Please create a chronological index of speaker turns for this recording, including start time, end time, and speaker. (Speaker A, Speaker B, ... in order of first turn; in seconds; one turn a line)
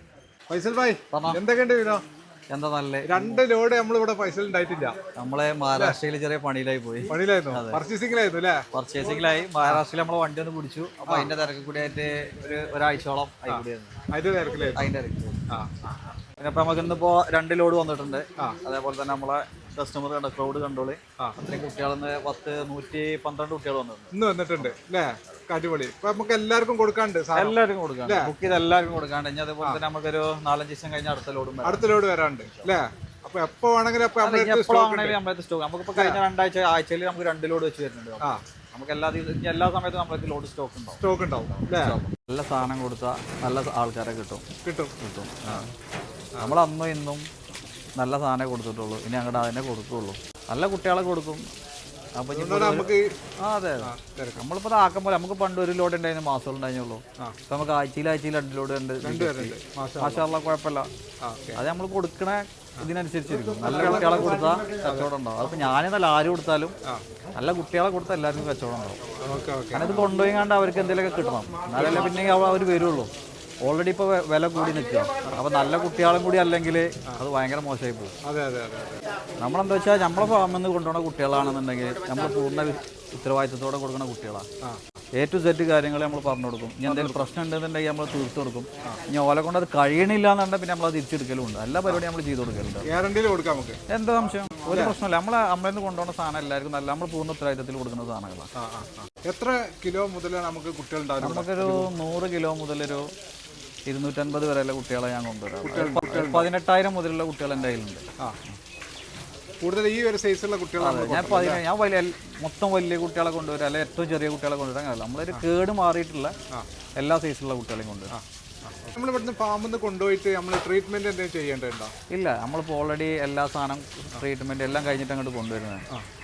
Speaker A: 0.5-2.0
Speaker B: 1.1-1.4
Speaker B: 2.5-3.4
Speaker A: 3.0-4.9
Speaker B: 5.2-7.8
Speaker A: 7.1-8.6
Speaker B: 8.7-13.9
Speaker A: 13.5-14.9
Speaker B: 14.7-15.4
Speaker B: 16.4-24.7
Speaker A: 24.1-28.3
Speaker B: 27.3-31.9
Speaker A: 31.6-35.2
Speaker B: 32.4-32.7
Speaker B: 34.2-41.0
Speaker A: 35.9-36.2
Speaker A: 41.0-42.0
Speaker B: 41.7-44.4
Speaker A: 44.6-45.7
Speaker B: 45.0-45.7
Speaker B: 46.4-47.2
Speaker B: 48.0-51.4
Speaker B: 52.2-60.9
Speaker A: 52.3-53.2
Speaker A: 53.8-54.4
Speaker A: 59.0-60.2
Speaker A: 61.2-61.6
Speaker B: 61.5-66.7
Speaker A: 63.6-65.1
Speaker B: 67.3-69.0
Speaker A: 69.2-70.1
Speaker B: 69.7-73.1
Speaker A: 71.7-72.1
Speaker B: 73.6-78.1
Speaker A: 78.2-79.0
Speaker B: 79.4-84.5
Speaker B: 85.2-92.9
Speaker A: 86.8-87.2
Speaker A: 92.8-93.8
Speaker B: 93.9-98.5
Speaker A: 94.6-95.0
Speaker A: 98.5-101.9
Speaker B: 101.2-103.0
Speaker B: 103.9-108.0
Speaker A: 105.6-106.5
Speaker A: 109.6-111.6
Speaker B: 110.8-116.3
Speaker B: 117.0-118.1
Speaker A: 118.1-121.9
Speaker B: 122.1-125.8